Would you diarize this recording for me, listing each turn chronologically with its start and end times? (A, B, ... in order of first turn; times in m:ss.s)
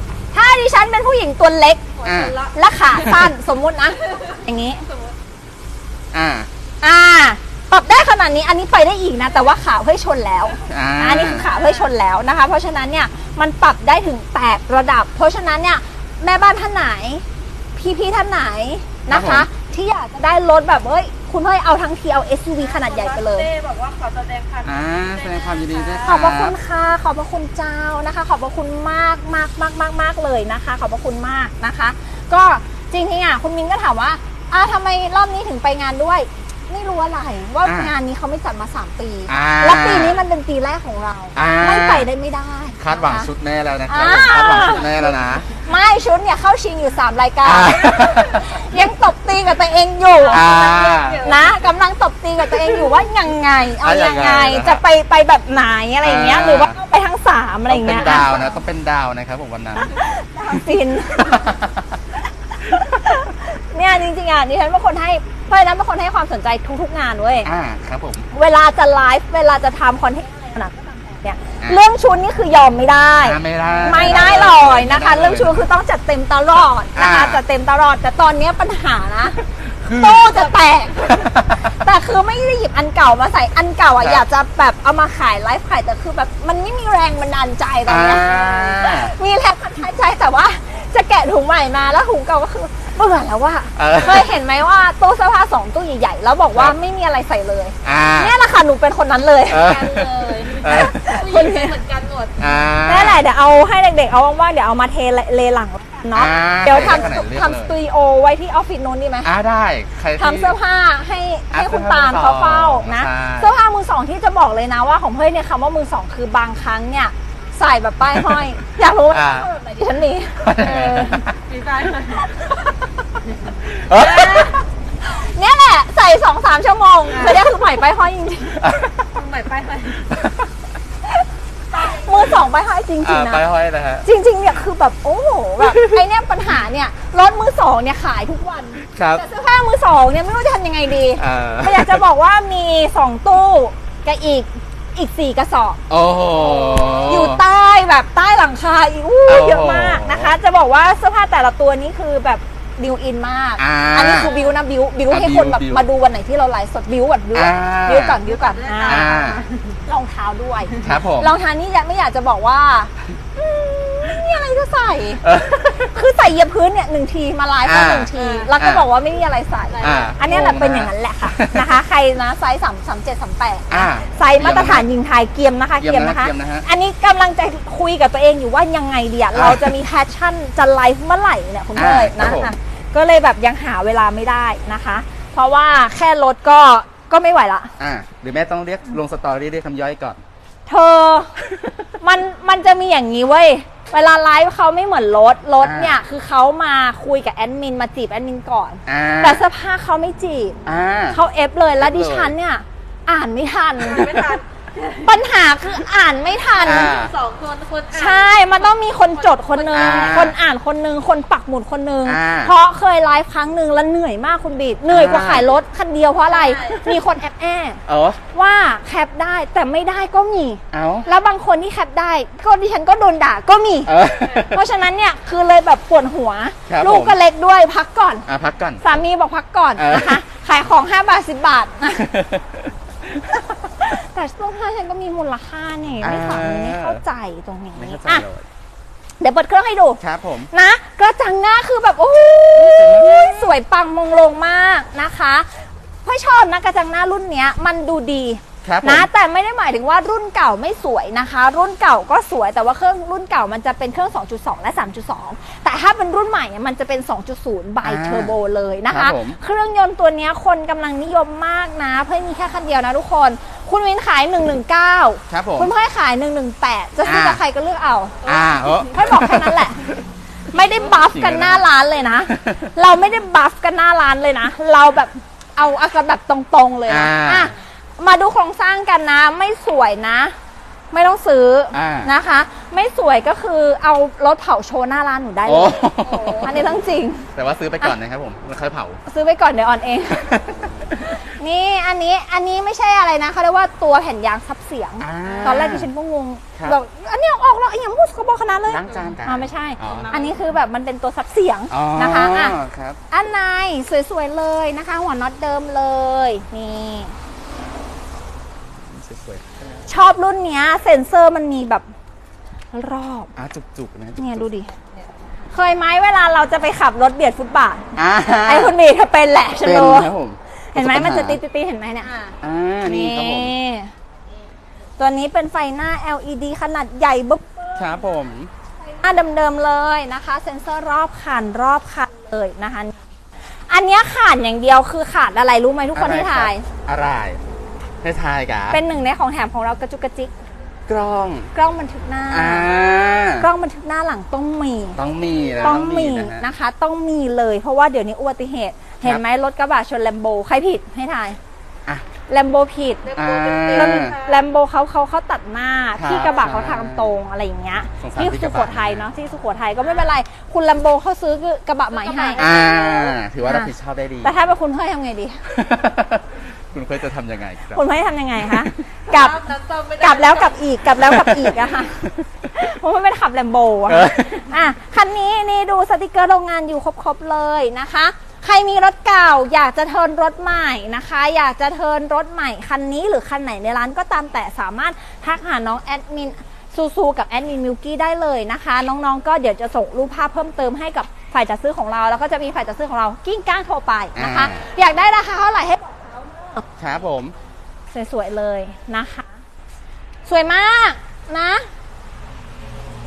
0:00.3-0:01.9 A
0:02.0-0:02.6 B
0:02.0-0:02.3 C
0:02.5-0:04.8 A
0:02.9-0:03.3 C
0:06.1-0:06.5 C
0:06.8-0:17.2 A
0:10.7-0:11.4 C
0:11.4-0:11.9 B
0:17.8-0:23.5 A
0:19.1-0:19.5 C
0:22.6-0:26.2 B
0:24.6-0:26.6 C
0:26.0-0:43.3 A
0:37.6-0:37.9 C
0:39.3-0:40.2 C
0:41.3-0:42.1 C
0:42.8-0:45.5 C
0:43.9-0:44.9 A
0:44.8-0:45.4 B
0:45.6-0:50.5 A
0:47.4-0:48.6 C
0:50.3-0:51.6 B
0:50.3-0:51.3 C
0:51.2-0:58.4 A
0:53.8-0:54.8 C
0:56.0-0:56.8 C
0:57.7-1:00.0 C
0:59.8-1:01.5 A
1:00.5-1:02.0 C
1:02.7-1:07.5 A
1:07.4-1:08.3 C
1:08.3-1:39.7 A
1:13.2-1:15.7 C
1:16.9-1:17.4 C
1:19.8-1:20.4 C
1:21.0-1:21.7 C
1:27.9-1:29.1 C
1:33.8-1:34.3 C
1:37.8-1:38.3 C
1:39.5-1:41.2 C
1:39.6-1:42.5 B
1:40.6-1:41.8 A
1:42.4-1:43.2 C
1:42.8-1:49.3 A
1:46.1-1:47.7 C
1:49.2-1:50.6 C
1:50.2-2:00.5 A
1:51.5-1:53.5 C
1:58.0-1:58.5 C
1:59.1-1:59.5 C
2:00.4-2:01.4 C
2:00.6-2:02.3 B
2:02.2-2:02.7 A
2:03.6-2:04.6 C
2:03.9-2:08.7 A
2:07.1-2:07.4 B
2:08.6-2:09.0 C
2:09.1-2:10.1 B
2:10.0-2:10.5 C
2:11.0-2:13.4 A
2:11.8-2:12.2 B
2:13.0-2:14.1 C
2:14.0-2:25.8 A
2:15.6-2:15.9 C
2:18.9-2:19.2 C
2:21.2-2:22.0 C
2:25.9-2:27.4 C
2:26.6-2:27.1 B
2:27.0-2:39.1 A
2:29.2-2:30.3 C
2:33.6-2:34.3 C
2:35.1-2:35.8 C
2:37.3-2:38.2 C
2:38.2-2:39.8 B
2:38.8-2:39.4 C
2:39.8-2:45.2 A
2:40.8-2:41.3 C
2:45.2-2:45.9 C
2:45.9-3:07.7 A
2:47.6-2:48.9 C
2:48.2-2:48.5 B
2:49.7-2:50.1 B
2:49.8-2:51.7 C
2:53.7-2:54.9 C
2:55.8-2:56.6 C
2:59.3-2:59.8 C
3:01.7-3:02.5 C
3:07.8-3:10.2 C
3:10.6-3:11.3 A
3:11.5-3:11.7 C
3:12.0-3:20.6 A
3:15.6-3:16.0 C
3:18.8-3:19.4 C
3:20.6-3:21.2 C
3:21.1-3:24.4 A
3:21.8-3:22.3 C
3:23.8-3:25.1 B
3:25.0-3:26.9 A
3:26.6-3:27.1 C
3:26.6-3:30.2 B
3:27.9-3:48.3 A
3:29.7-3:30.4 C
3:32.0-3:32.5 C
3:34.9-3:35.5 C
3:36.3-3:37.0 B
3:37.8-3:38.2 C
3:40.7-3:41.1 C
3:43.8-3:44.5 C
3:46.7-3:47.2 C
3:48.3-3:48.8 C
3:48.8-3:52.0 A
3:49.8-3:50.2 C
3:51.9-3:53.6 C
3:53.8-3:58.2 A
3:56.0-3:57.0 C
3:57.7-3:58.5 C
3:59.2-4:00.0 A
4:00.0-4:00.5 C
4:00.5-4:28.3 A
4:02.5-4:03.5 C
4:08.6-4:09.1 C
4:17.8-4:18.3 C
4:18.9-4:19.4 C
4:25.3-4:25.7 C
4:27.0-4:27.4 C
4:28.2-4:28.9 B
4:28.2-4:30.0 C
4:28.9-4:29.8 A
4:30.5-4:40.3 A
4:30.7-4:31.6 C
4:32.2-4:32.7 C
4:36.9-4:37.5 C
4:40.9-4:45.8 A
4:41.7-4:42.1 C
4:45.4-4:46.6 C
4:46.0-4:46.5 B
4:46.4-4:47.3 A
4:47.3-4:49.0 C
4:49.1-4:50.3 A
4:50.1-4:51.0 C
4:51.2-5:02.6 A
4:55.0-4:55.9 C
4:55.2-4:55.6 B
4:58.7-5:00.1 C
4:59.8-5:00.4 B
5:01.7-5:03.0 C
5:03.1-5:07.1 A
5:08.8-5:09.8 C
5:09.9-5:11.8 A
5:12.7-5:13.3 A
5:13.4-5:14.5 C
5:14.2-5:14.7 A
5:15.5-5:20.1 A
5:18.0-5:18.8 C
5:19.6-5:21.4 C
5:20.7-5:22.1 A
5:22.0-5:22.4 B
5:22.4-5:23.5 C
5:22.8-5:23.9 A
5:25.0-5:27.8 A
5:27.8-5:28.5 C
5:28.9-5:33.0 A
5:33.7-5:36.6 A
5:35.9-5:37.4 C
5:38.0-5:38.8 C
5:38.7-5:40.3 A
5:40.9-5:41.5 C
5:41.5-5:42.7 A
5:42.3-5:43.5 C
5:43.4-5:45.0 A
5:44.9-5:46.4 C
5:45.6-5:51.4 A
5:52.3-5:53.1 A
5:53.0-5:54.5 B
5:53.1-5:54.1 C
5:53.7-6:02.9 A
5:56.0-5:57.1 C
5:56.1-5:56.5 B
5:58.0-5:59.0 C
6:01.9-6:03.1 B
6:02.4-6:04.4 C
6:03.4-6:03.7 A
6:04.2-6:05.4 A
6:05.4-6:07.8 C
6:07.7-6:09.4 A
6:09.1-6:10.6 B
6:10.0-6:12.0 A
6:11.0-6:12.3 C
6:12.5-6:36.6 A
6:13.9-6:14.4 C
6:34.2-6:34.6 C
6:36.8-6:37.3 C
6:37.9-6:39.3 A
6:40.3-6:41.6 A